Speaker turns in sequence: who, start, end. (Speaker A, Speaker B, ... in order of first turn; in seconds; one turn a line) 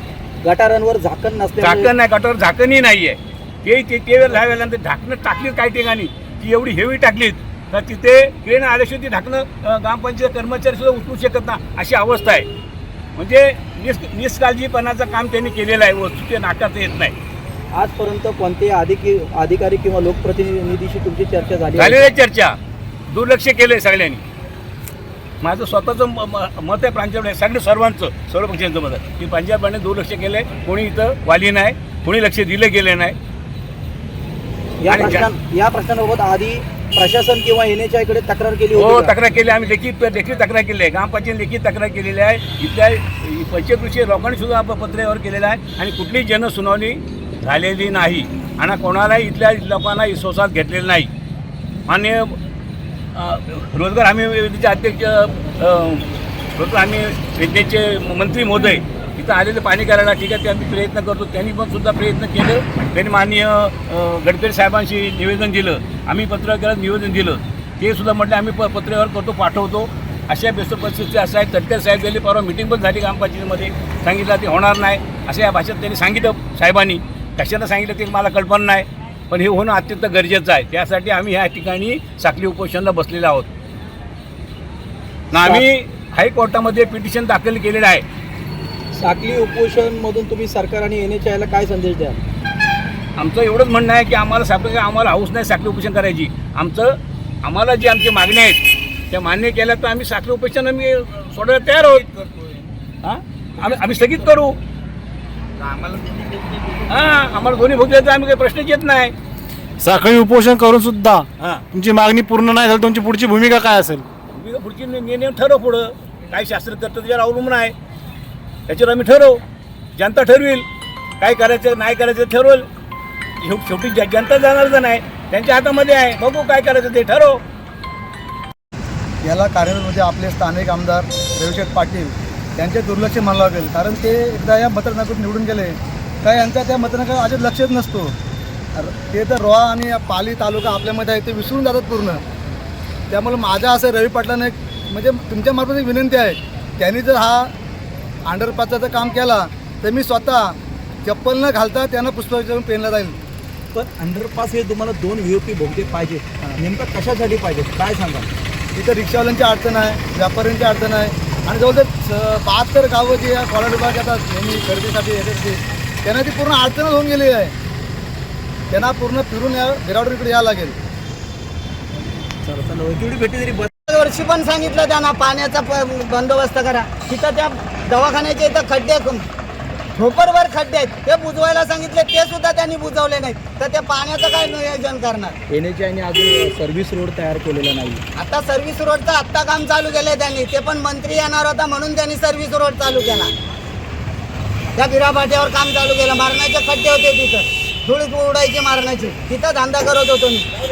Speaker A: 0.4-1.9
Speaker B: 1.6-12.5
Speaker B: 13.2-17.1
Speaker A: 17.7-22.0
Speaker B: 21.8-22.6
Speaker B: 23.1-24.2
Speaker B: 25.4-33.1
Speaker A: 34.8-39.1
Speaker B: 34.9-35.3
Speaker B: 38.7-51.1
Speaker B: 51.9-52.4
Speaker B: 53.1-83.5
Speaker B: 85.3-88.0
Speaker A: 85.3-85.7
Speaker A: 88.9-92.2
Speaker B: 93.2-102.1
Speaker B: 103.0-104.6
Speaker B: 106.9-109.1
Speaker C: 109.8-114.0
Speaker B: 111.4-111.6
Speaker B: 114.3-117.7
Speaker B: 118.7-119.4
Speaker B: 120.0-120.6
Speaker B: 121.2-122.7
Speaker B: 123.4-127.4
Speaker D: 129.2-138.1
Speaker D: 138.8-142.2
Speaker D: 143.1-147.5
Speaker D: 148.2-153.2
Speaker A: 153.7-158.3
Speaker D: 158.7-167.5
Speaker D: 168.7-170.8
Speaker A: 172.4-173.7
Speaker E: 173.9-179.2
Speaker E: 179.9-185.4
Speaker A: 185.5-188.0
Speaker E: 188.2-193.3
Speaker E: 194.8-200.5